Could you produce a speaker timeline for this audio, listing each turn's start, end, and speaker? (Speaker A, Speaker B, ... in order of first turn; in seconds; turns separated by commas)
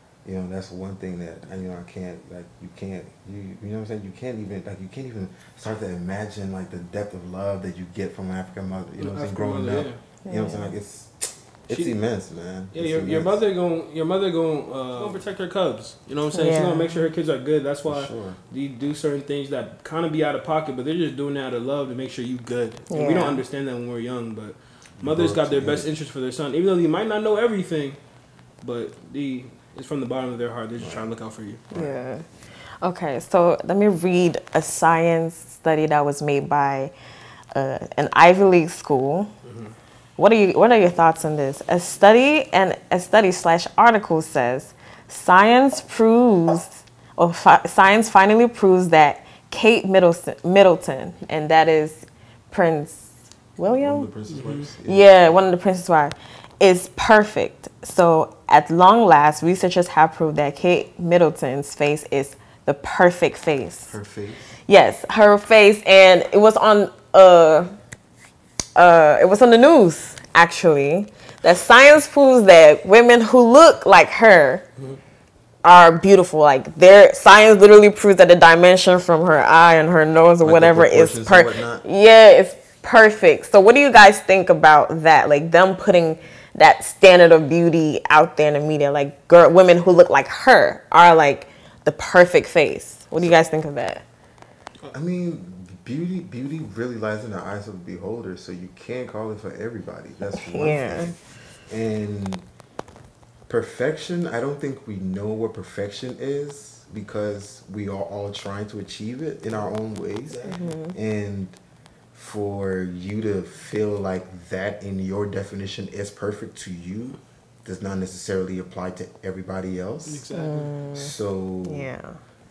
Speaker A: 0.2-13.4, Speaker B: 9.0-10.0, Speaker C: 10.2-10.8, Speaker B: 12.7-28.0, Speaker C: 16.3-17.0, Speaker A: 17.9-18.4, Speaker C: 22.9-23.4, Speaker A: 25.0-25.9, Speaker B: 28.6-31.6, Speaker C: 31.7-32.2, Speaker C: 32.8-36.9, Speaker C: 37.5-39.3, Speaker B: 39.5-39.7, Speaker C: 40.2-54.1, Speaker A: 53.6-55.2, Speaker B: 54.3-54.7, Speaker C: 54.9-64.0, Speaker A: 63.9-64.5, Speaker C: 64.7-67.7, Speaker C: 68.8-74.6, Speaker C: 75.6-94.0, Speaker A: 80.4-81.8, Speaker A: 94.9-101.2, Speaker C: 100.4-101.1, Speaker A: 101.7-102.4, Speaker A: 103.5-111.6, Speaker B: 110.3-110.7, Speaker C: 110.5-111.0, Speaker A: 112.1-120.2, Speaker B: 120.1-120.7, Speaker C: 120.3-121.1, Speaker A: 120.9-121.9, Speaker C: 121.6-122.2